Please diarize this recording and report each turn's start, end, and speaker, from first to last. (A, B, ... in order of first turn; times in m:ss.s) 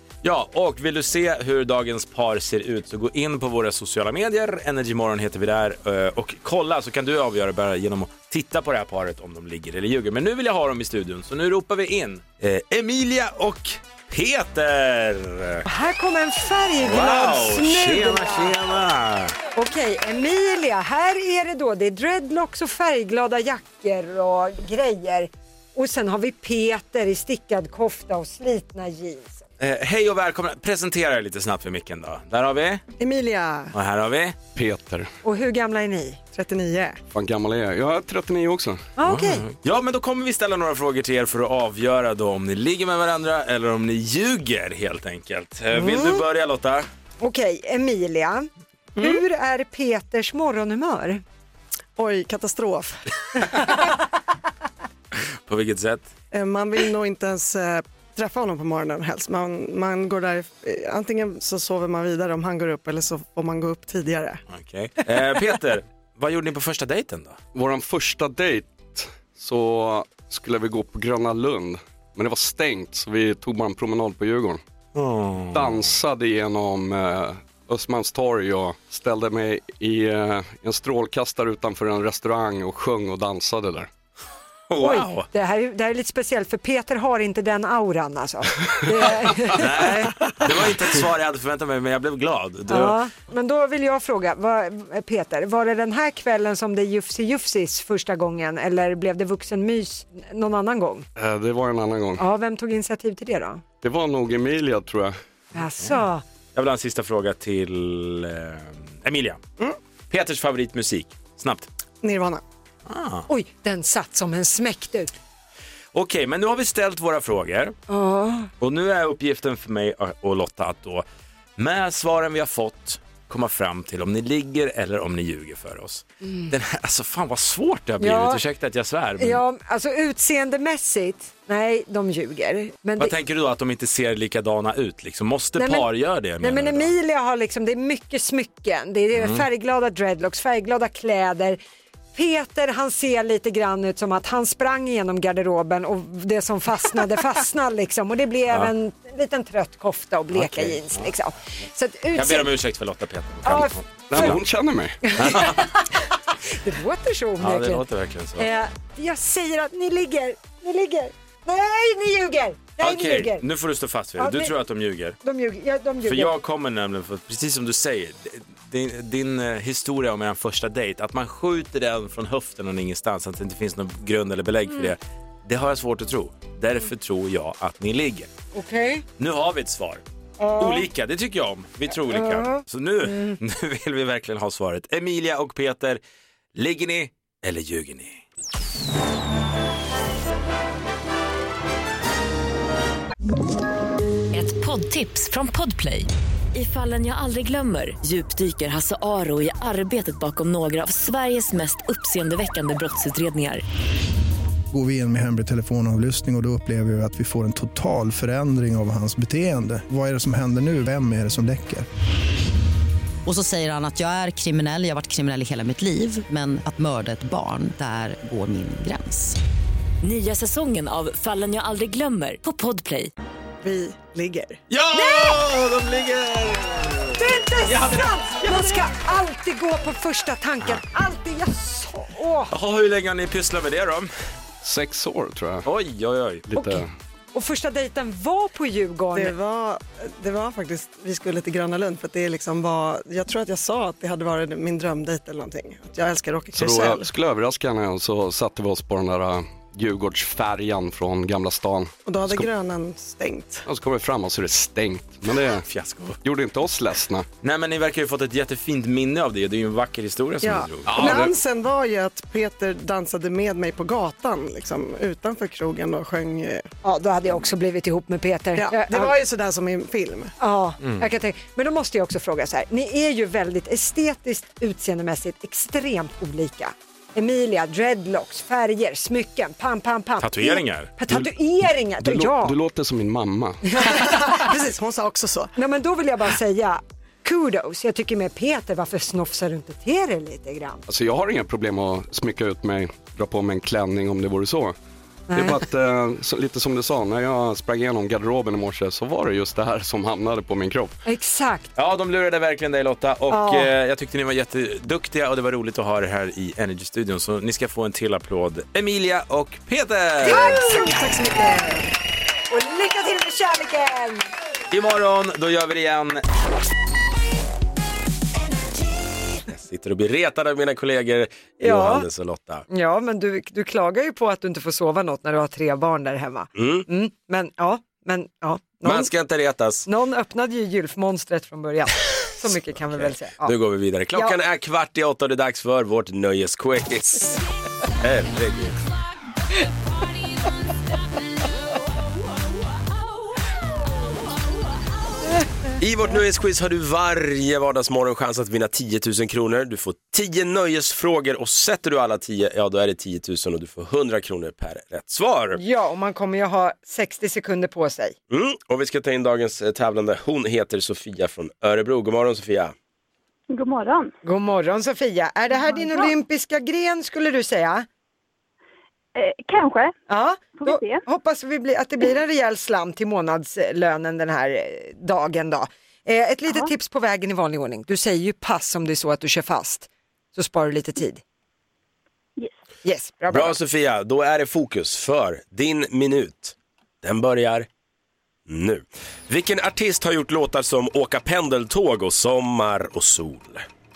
0:00.2-0:15.6 A
0:15.6-0:18.6 B
0:16.8-0:19.3 A
0:19.5-0:29.4 B
0:29.6-0:32.8 A
0:33.0-0:33.7 C
0:33.7-0:34.3 A
0:34.5-0:35.1 D
0:35.2-0:36.3 B
0:36.3-0:37.0 C
0:37.1-0:38.8 D
0:39.0-0:39.5 B
0:39.0-0:46.9 A
0:45.7-0:46.2 B
0:47.2-0:51.2 B
0:52.0-0:53.6 C
0:55.5-0:56.0 A
0:56.3-1:04.4 C
1:04.5-1:07.4 A
1:07.5-1:14.6 D
1:15.0-1:15.7 A
1:15.5-1:23.9 D
1:24.7-1:25.3 A
1:24.8-1:30.4 B
1:29.5-1:33.0 A
1:32.7-1:41.1 B
1:41.2-1:42.2 D
1:42.2-1:43.6 B
1:43.8-1:45.1 D
1:45.5-1:46.2 B
1:46.5-1:49.4 A
1:50.1-1:51.7 A
1:52.0-1:52.4 C
1:52.9-1:53.2 A
1:53.3-1:55.1 B
1:55.9-1:57.7 A
1:57.9-1:58.5 B
1:58.6-2:01.0 A
2:01.6-2:09.4 A
2:06.2-2:06.5 B
2:08.0-2:08.4 B
2:09.2-2:13.1 B
2:13.0-2:16.9 A
2:15.6-2:21.6 B
2:19.2-2:19.4 A
2:22.1-2:32.5 B
2:30.3-2:31.0 A
2:32.1-2:34.4 A
2:33.4-2:34.4 B
2:34.1-2:35.2 D
2:35.0-2:37.8 B
2:35.2-2:35.6 A
2:37.4-2:38.4 A
2:38.4-2:43.4 B
2:42.8-2:45.2 A
2:44.2-2:44.5 B
2:45.2-2:46.4 B
2:46.0-2:58.3 A
2:58.5-2:59.0 B
2:59.2-3:00.0 A
3:00.4-3:00.9 B
3:00.6-3:06.0 A
3:02.0-3:03.4 B
3:06.5-3:08.2 A
3:14.3-3:23.6 E
3:24.7-3:31.8 F
3:33.2-3:39.4 G
3:40.0-3:43.1 E
3:43.6-3:44.6 C
3:44.7-3:48.6 A
3:44.9-3:45.4 B
3:47.2-3:52.5 B
3:52.5-3:54.1 A
3:54.6-3:55.7 D
3:55.6-3:56.4 A
3:56.5-3:56.9 D
3:56.5-3:59.3 B
3:59.1-4:07.1 C
4:06.5-4:12.5 D
4:12.0-4:13.6 C
4:13.6-4:15.6 D
4:15.7-4:16.2 A
4:16.2-4:17.3 D
4:17.4-4:21.3 A
4:20.4-4:26.7 C
4:26.8-4:29.2 B
4:28.6-4:30.3 C
4:30.4-4:42.6 B
4:40.2-4:40.9 A
4:42.0-4:43.6 D
4:43.7-4:44.4 B
4:44.0-4:45.5 C
4:45.6-4:50.8 B
4:50.9-4:54.7 D
4:55.3-4:55.6 B
4:55.3-5:00.9 D
5:01.0-5:01.7 B
5:01.8-5:10.6 A
5:03.3-5:03.7 B
5:10.2-5:11.9 C
5:10.2-5:11.1 B
5:12.5-5:14.2 B
5:14.7-5:16.2 A
5:19.5-5:22.6 A
5:21.6-5:22.0 B
5:22.7-5:29.1 B
5:26.6-5:26.8 A
5:28.8-5:29.9 A
5:29.9-5:33.6 B
5:32.9-5:37.4 A
5:38.0-5:38.8 A
5:45.8-5:55.6 A
5:55.5-5:58.1 B
5:58.3-6:02.7 A
6:03.5-6:04.1 H
6:04.2-6:07.8 B
6:05.8-6:06.1 H
6:09.1-6:09.9 H
6:10.1-6:21.2 B
6:10.6-6:11.0 H
6:22.8-6:23.6 B
6:23.3-6:27.7 A
6:28.5-6:33.6 A